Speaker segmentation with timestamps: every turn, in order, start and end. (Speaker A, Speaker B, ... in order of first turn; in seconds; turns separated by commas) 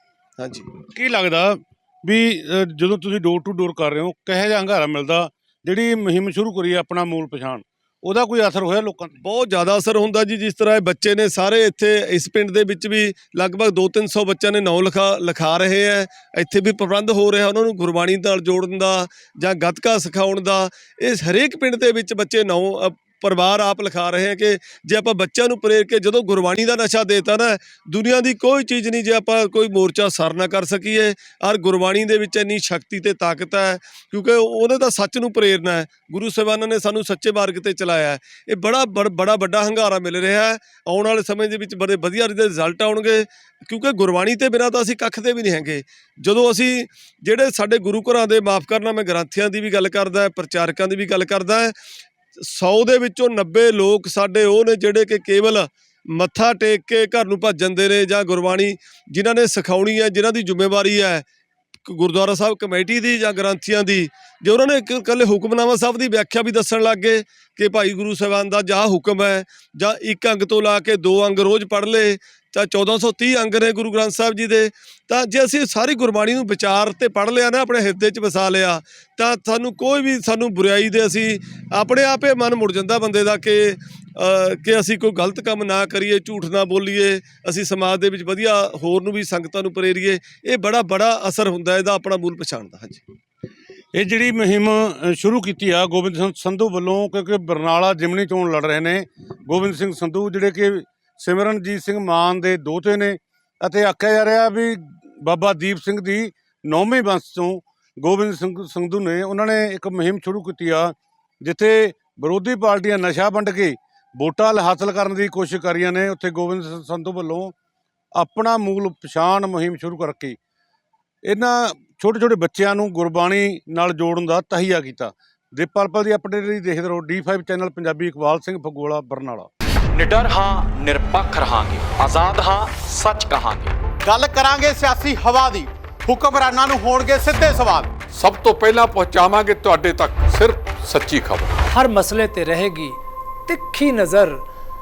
Speaker A: 0.4-0.7, Speaker B: 0.9-9.2, Speaker A: 9.2-51.7, Speaker A: 52.4-61.2, Speaker A: 61.9-93.0, Speaker B: 93.9-117.5, Speaker B: 118.2-120.4, Speaker B: 121.2-129.5, Speaker C: 129.9-133.7, Speaker D: 134.0-138.0, Speaker E: 138.2-141.5, Speaker F: 141.7-144.4